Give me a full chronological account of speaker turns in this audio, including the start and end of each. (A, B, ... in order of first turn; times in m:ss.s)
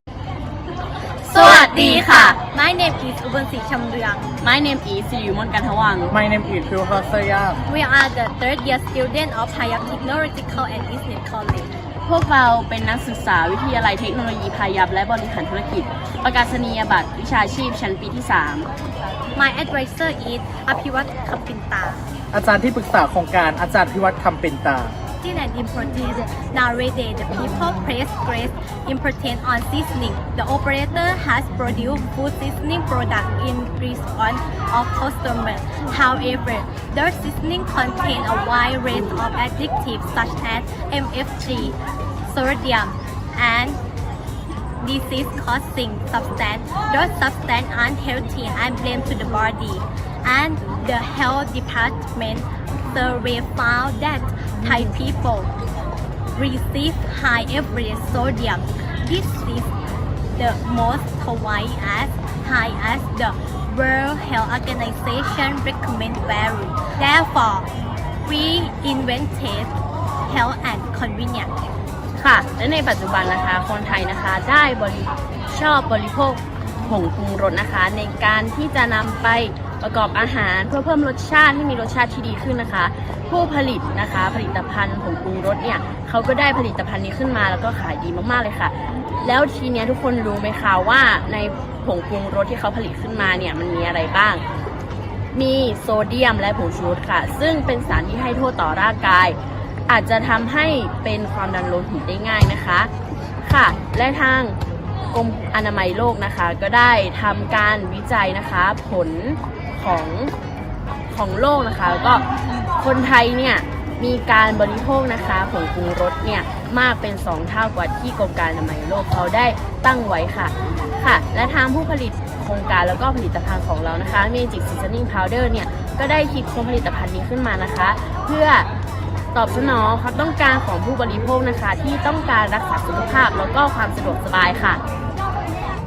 0:01.2-0:04.3 A
0:01.3-0:02.4 B
0:04.4-0:06.1 B
0:06.1-0:07.6 C
0:07.7-0:11.7 A
0:12.0-0:18.7 B
0:19.3-0:22.0 A
0:22.3-0:24.9 C
0:25.2-0:43.8 A
0:44.8-0:55.5 A
0:56.3-0:59.7 A
1:00.3-1:07.7 A
1:08.2-1:09.7 A
1:10.3-1:11.5 A
1:12.2-1:34.4 B
1:35.3-1:39.4 B
1:39.9-1:42.9 B
1:43.4-1:44.6 B
1:45.1-1:50.3 B
1:51.1-1:52.2 B
1:52.8-2:08.7 B
2:09.3-2:14.8 B